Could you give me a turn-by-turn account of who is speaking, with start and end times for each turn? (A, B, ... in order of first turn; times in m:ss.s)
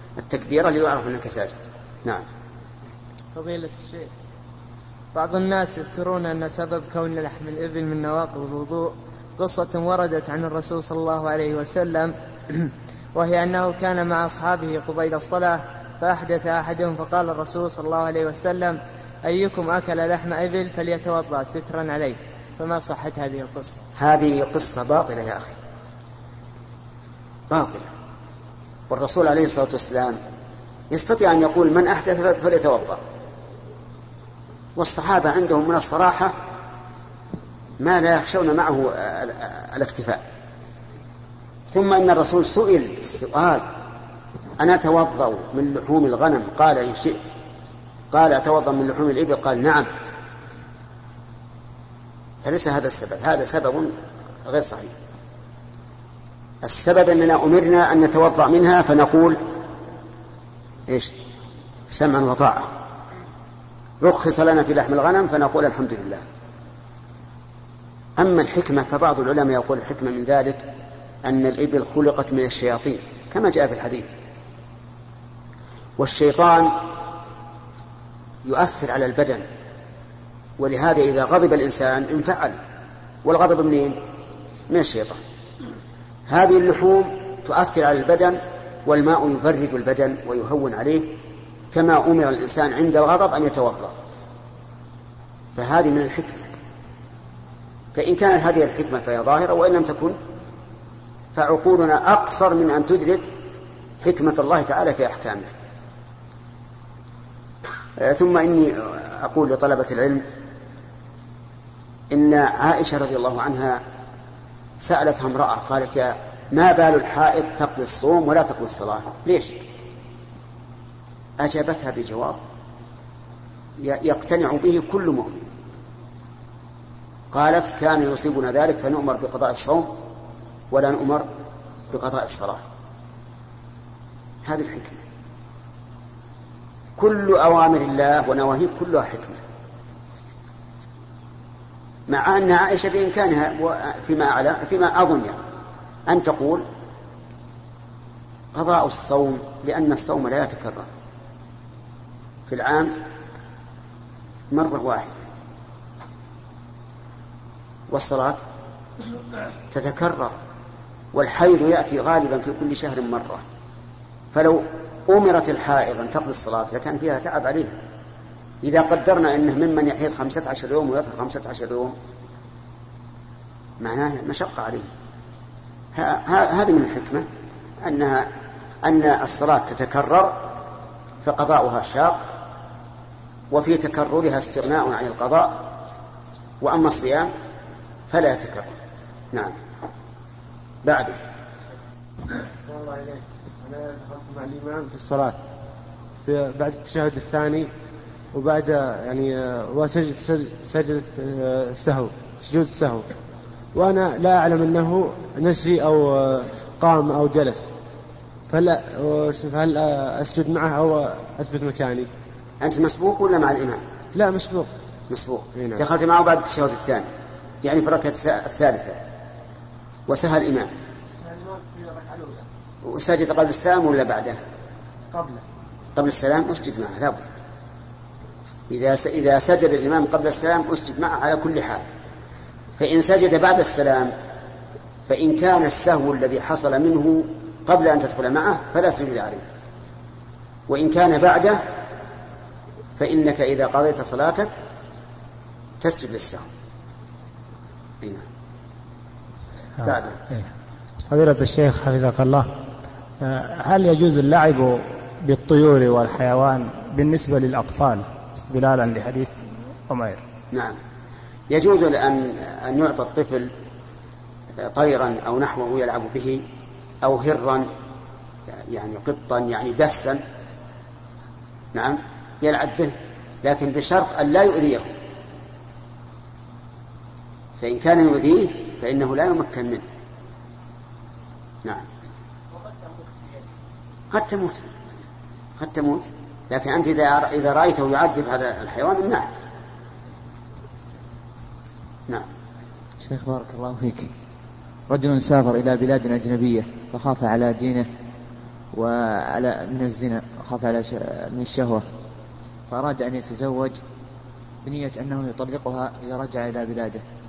0:00.2-0:02.2 A
0:03.3-0:04.1 B
0:05.1-0:23.8 B
0:24.0-0:25.6 A
0:27.5-0:27.9 A
0:28.9-0:30.2 A
0:30.9-0:33.0 A
0:34.8-0:36.3 A
0:37.8-0:40.2 A
0:41.7-0:43.6 A
0:44.6-0:47.3 A
0:48.1-0:49.9 A
0:52.4-0:53.9 A
0:54.4-0:54.9 A
0:56.6-0:59.4 A
1:01.9-1:02.7 A
1:04.0-1:06.2 A
1:08.2-1:10.6 A
1:11.2-1:14.1 A
1:16.0-1:16.8 A
1:18.4-1:19.4 A
1:20.6-1:22.6 A
1:23.2-1:24.0 A
1:24.7-1:25.2 A
1:26.3-1:31.1 A
1:31.7-1:33.9 A
1:35.5-1:36.5 A
1:37.9-1:40.2 A
1:41.3-1:43.3 A
1:44.0-1:45.5 A
1:48.0-1:50.2 A
1:52.1-1:53.8 A
1:54.8-1:59.6 A
2:01.4-2:02.4 A
2:03.8-2:05.5 A
2:07.3-2:09.9 A
2:10.7-2:11.3 A
2:11.9-2:12.6 A
2:14.4-2:15.0 A
2:17.0-2:19.4 A
2:22.1-2:25.4 A
2:26.1-2:26.6 A
2:28.5-2:30.9 A
2:32.5-2:33.0 A
2:34.5-2:35.3 A
2:37.9-2:38.4 A
2:39.7-2:40.4 A
2:41.1-2:43.4 A
2:44.3-2:47.8 A
2:48.6-2:51.9 A
2:53.8-2:54.9 A
2:55.9-2:57.2 A
2:57.8-2:58.3 A
2:58.8-3:00.5 A
3:01.2-3:02.2 A
3:03.5-3:05.6 A
3:06.6-3:07.3 A
3:08.1-3:08.8 A
3:09.3-3:09.6 A
3:10.8-3:11.2 A
3:12.6-3:15.4 C
3:16.2-3:17.7 C
3:18.3-3:23.1 C
3:23.7-3:27.7 C
3:28.5-3:32.1 C
3:32.6-3:33.8 A
3:34.1-3:34.7 C
3:35.1-3:37.1 A
3:35.5-3:35.8 C
3:37.6-3:39.0 A
3:40.1-3:40.7 A
3:41.3-3:42.4 C
3:42.8-3:44.4 A
3:45.1-3:45.4 C
3:46.0-3:47.2 A
3:48.7-3:51.8 A
3:52.8-3:54.1 A
3:55.1-3:59.4 A
4:00.7-4:01.6 A
4:03.0-4:04.5 A
4:05.8-4:06.4 A
4:09.8-4:10.5 D
4:09.8-4:10.2 A
4:11.1-4:12.5 D
4:13.2-4:20.2 D
4:20.5-4:20.8 A
4:21.5-4:23.5 A
4:24.6-4:26.4 A
4:27.0-4:27.7 A
4:28.5-4:30.2 A
4:31.7-4:34.9 A
4:37.6-4:39.8 A
4:44.1-4:44.6 A
4:45.6-4:49.3 A
4:53.0-4:54.1 E
4:54.9-4:57.9 E
4:58.7-5:01.8 E
5:02.7-5:03.8 E
5:04.6-5:07.0 E